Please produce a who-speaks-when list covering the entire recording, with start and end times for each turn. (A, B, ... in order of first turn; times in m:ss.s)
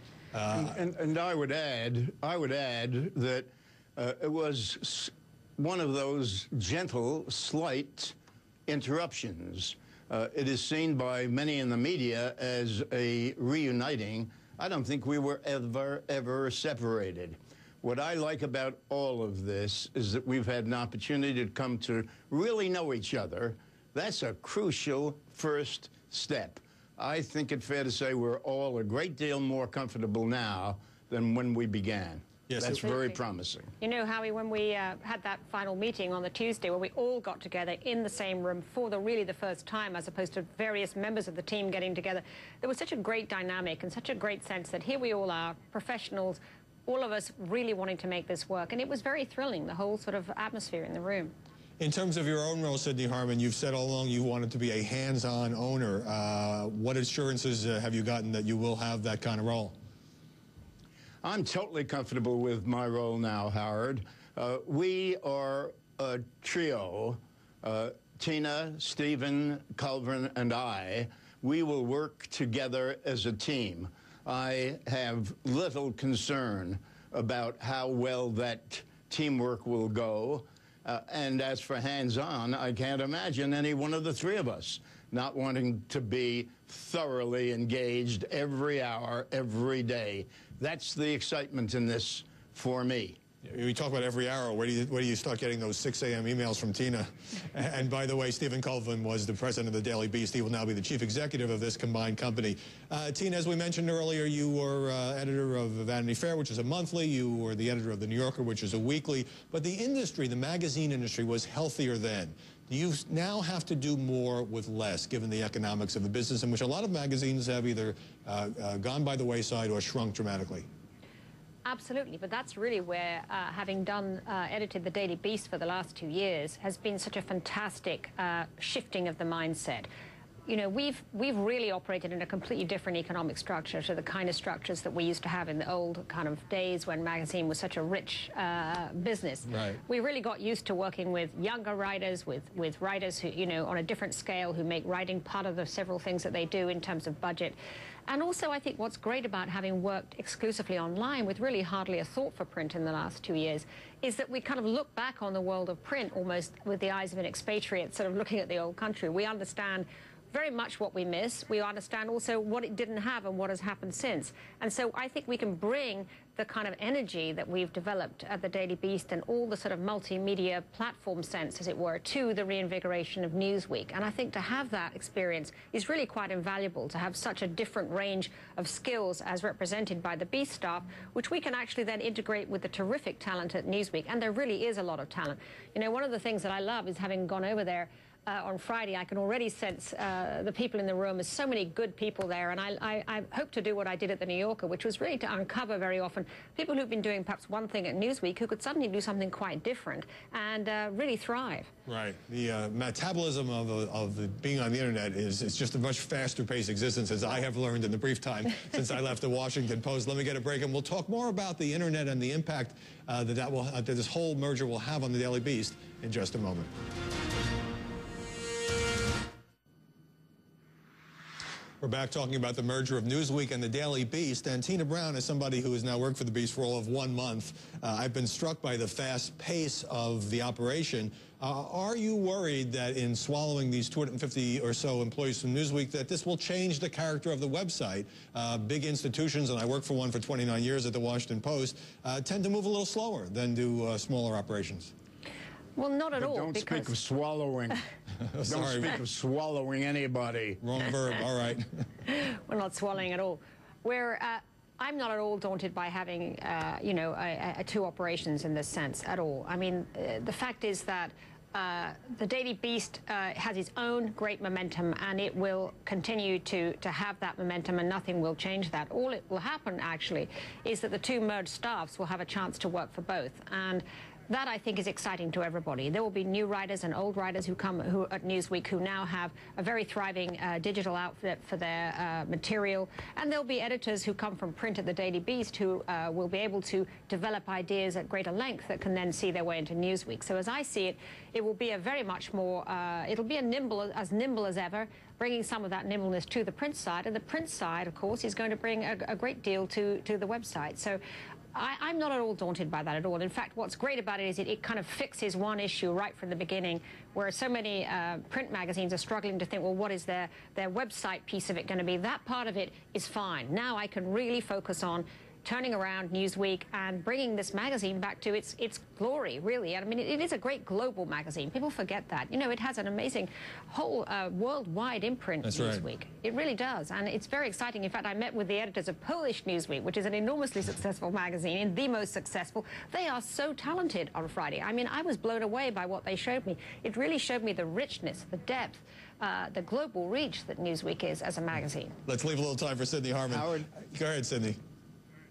0:00.3-0:00.8 A
0:00.5-0:08.2 B
0:08.7-0:33.7 B
0:32.5-0:32.8 A
0:33.8-0:51.3 C
0:51.8-0:59.8 A
1:01.2-1:33.2 B
1:33.4-2:00.7 A
2:01.6-2:09.9 C
2:10.5-2:27.6 C
2:28.1-3:21.7 C
3:21.9-3:36.7 A
3:41.8-4:04.9 A
4:05.8-4:06.9 C
4:06.2-4:07.8 B
4:08.2-4:09.0 A
4:08.5-4:10.6 B
4:10.6-4:11.8 A
4:12.1-5:01.0 C
5:01.5-5:42.0 C
5:25.5-5:25.8 A
5:42.1-5:44.6 A
5:43.3-5:43.6 B